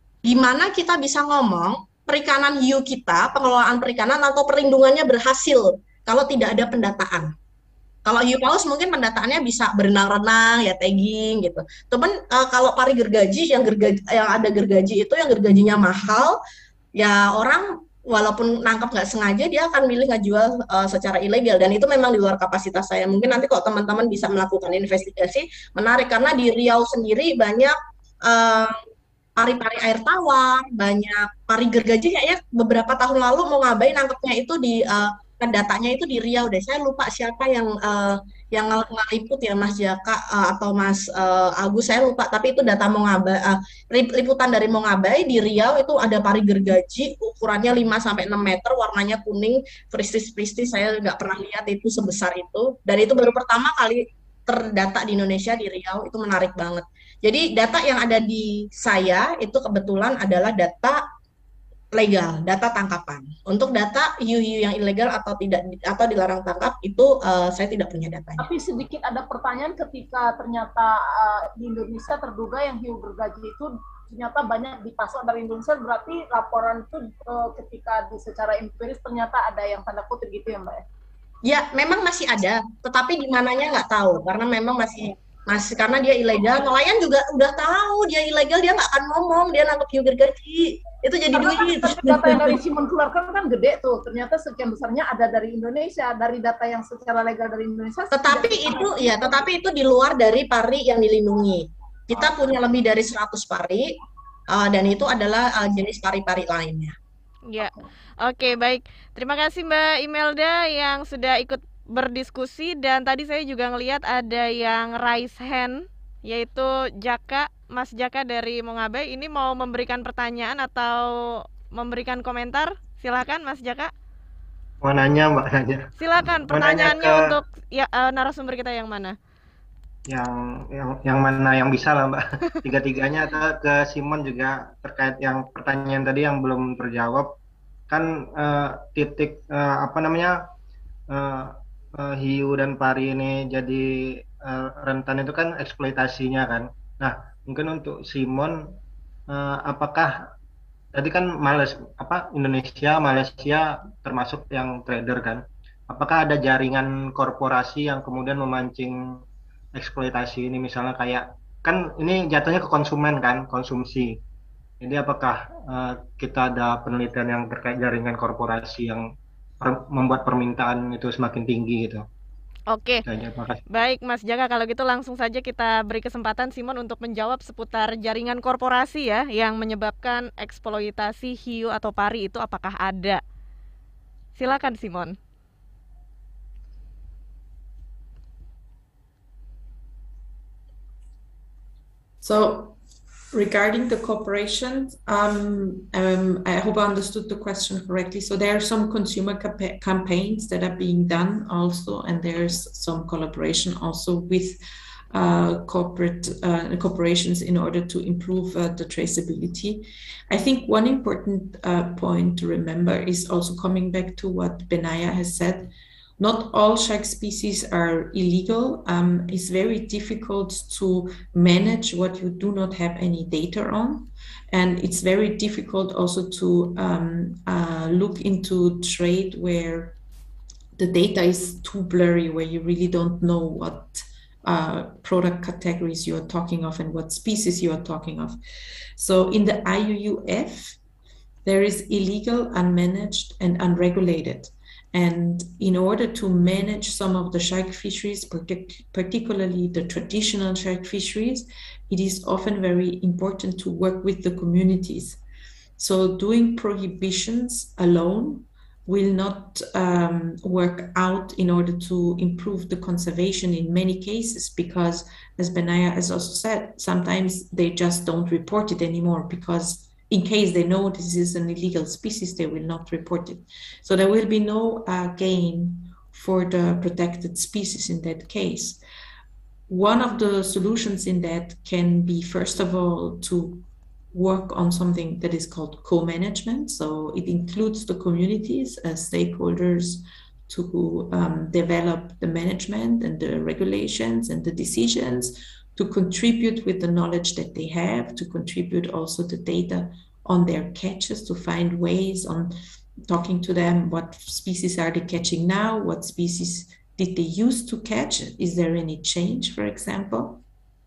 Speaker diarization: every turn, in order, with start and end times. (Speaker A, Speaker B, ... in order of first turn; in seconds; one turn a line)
Speaker A: 0.2-7.3
Speaker A: 8.1-16.4
Speaker A: 17.0-27.7
Speaker A: 28.2-28.8
Speaker A: 29.4-61.0
Speaker A: 61.9-68.4
Speaker B: 68.4-80.8
Speaker A: 81.4-92.5
Speaker B: 91.3-99.3
Speaker A: 98.1-103.9
Speaker A: 104.5-106.9
Speaker C: 107.5-123.9
Speaker D: 124.8-125.9
Speaker C: 126.0-129.2
Speaker D: 126.5-127.3
Speaker D: 130.1-137.3
Speaker D: 137.9-140.5
Speaker D: 141.1-143.8
Speaker D: 144.4-148.6
Speaker D: 149.3-150.3
Speaker D: 150.9-159.2
Speaker D: 159.7-164.2
Speaker D: 164.8-169.1
Speaker D: 169.6-172.0
Speaker C: 172.7-173.0
Speaker D: 173.1-173.6
Speaker C: 173.7-183.2
Speaker C: 184.3-185.2
Speaker E: 192.2-192.8
Speaker E: 193.3-204.6
Speaker E: 205.1-230.0
Speaker E: 230.8-238.4
Speaker E: 239.0-240.8
Speaker E: 241.4-255.2
Speaker E: 255.8-278.8
Speaker E: 279.7-302.5
Speaker E: 303.1-310.4